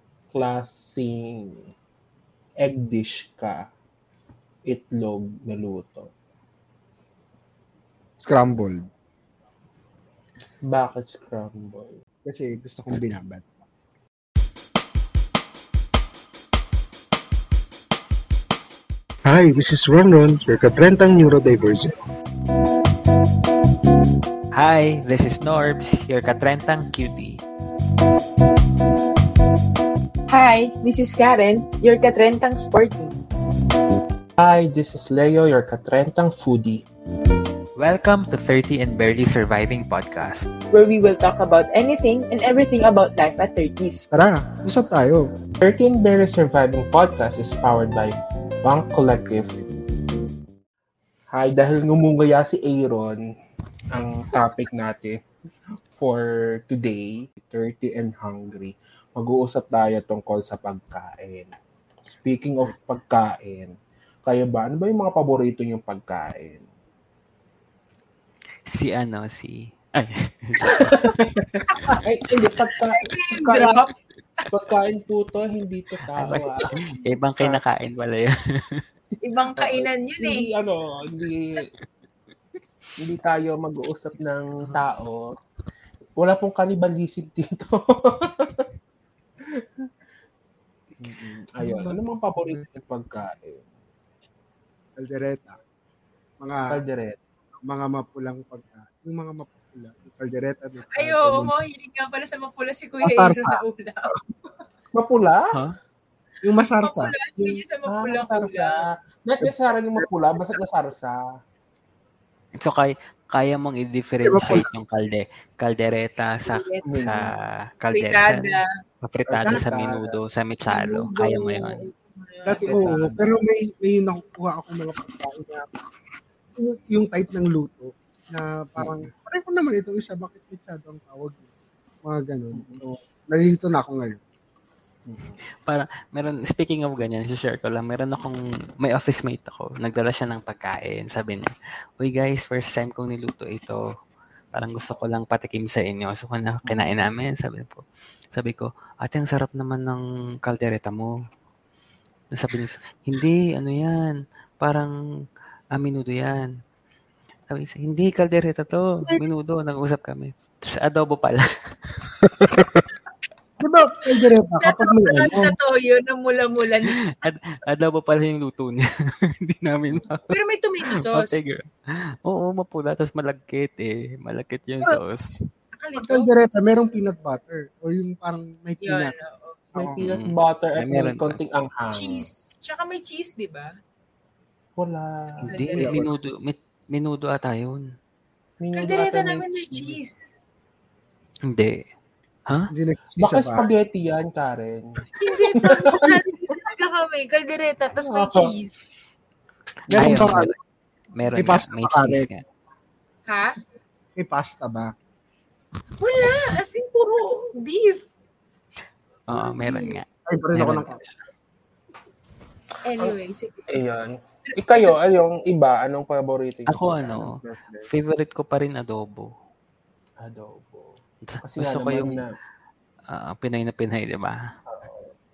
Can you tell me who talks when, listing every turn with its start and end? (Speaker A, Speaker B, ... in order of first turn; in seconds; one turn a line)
Speaker A: 0.3-1.6
Speaker A: 2.6-3.7
Speaker A: 4.7-6.1
Speaker B: 8.2-8.8
Speaker A: 10.7-12.0
Speaker B: 12.2-13.4
Speaker B: 19.3-21.9
Speaker C: 24.6-27.4
Speaker D: 30.3-33.1
Speaker A: 34.4-36.8
Speaker C: 37.8-40.5
Speaker D: 40.7-44.1
Speaker B: 44.1-45.2
Speaker A: 45.6-49.6
Speaker A: 51.3-53.2
Speaker A: 53.9-55.2
Speaker A: 55.9-61.6
Speaker A: 62.1-63.7
Speaker A: 64.3-66.7
Speaker C: 68.7-71.1
Speaker A: 70.7-73.8
Speaker E: 71.7-72.0
Speaker E: 72.9-73.9
Speaker A: 74.5-77.6
Speaker C: 76.2-78.8
Speaker E: 79.2-80.5
Speaker A: 79.6-81.7
Speaker A: 83.0-85.3
Speaker A: 86.2-88.6
Speaker A: 91.0-93.7
Speaker C: 91.6-91.9
Speaker B: 95.0-95.6
Speaker B: 96.4-96.7
Speaker A: 96.7-97.2
Speaker B: 97.6-101.6
Speaker E: 101.0-104.2
Speaker B: 103.0-103.6
Speaker A: 105.0-105.5
Speaker B: 106.4-107.6
Speaker E: 106.8-108.8
Speaker A: 107.9-111.2
Speaker B: 109.4-110.5
Speaker C: 112.6-117.2
Speaker B: 114.2-114.7
Speaker E: 116.5-116.8
Speaker A: 116.8-117.3
Speaker C: 117.8-121.9
Speaker E: 117.9-118.7
Speaker A: 119.3-120.2
Speaker B: 119.5-119.9
Speaker E: 120.7-122.9
Speaker B: 122.5-125.7
Speaker A: 122.6-123.2
Speaker B: 126.6-131.4
Speaker C: 128.8-129.1
Speaker B: 132.0-132.8
Speaker A: 132.5-133.0
Speaker B: 133.3-134.2
Speaker A: 135.1-135.4
Speaker C: 135.7-143.8
Speaker C: 144.5-147.8
Speaker A: 146.7-146.9
Speaker C: 148.3-151.1
Speaker C: 152.3-154.9
Speaker C: 155.8-156.5
Speaker C: 157.5-162.2
Speaker B: 163.6-165.6
Speaker E: 164.6-167.1
Speaker C: 166.9-175.4
Speaker E: 170.3-171.4
Speaker E: 175.8-176.3
Speaker B: 176.0-179.2
Speaker E: 178.8-179.6
Speaker A: 179.8-182.3
Speaker C: 180.0-181.4
Speaker E: 181.9-183.7
Speaker A: 184.8-185.9
Speaker C: 185.4-187.8
Speaker E: 185.5-186.1
Speaker B: 185.8-186.1
Speaker A: 188.6-190.0
Speaker E: 188.7-190.2
Speaker C: 191.5-191.8
Speaker B: 192.7-193.7
Speaker A: 193.2-194.9
Speaker E: 195.2-198.8
Speaker A: 195.6-196.2
Speaker A: 198.0-198.5
Speaker B: 199.9-200.6
Speaker C: 199.9-200.5
Speaker A: 199.9-200.3
Speaker C: 201.2-202.4
Speaker B: 201.4-202.3
Speaker E: 203.3-203.6
Speaker B: 204.2-204.9
Speaker E: 206.0-208.1
Speaker C: 209.3-211.2
Speaker E: 209.3-210.0
Speaker B: 210.3-211.0
Speaker E: 212.8-213.8
Speaker A: 213.7-217.9
Speaker E: 214.4-214.9
Speaker C: 216.7-217.3
Speaker C: 217.9-219.3
Speaker A: 220.2-222.3
Speaker C: 221.2-222.2
Speaker C: 223.1-224.4
Speaker A: 224.7-225.1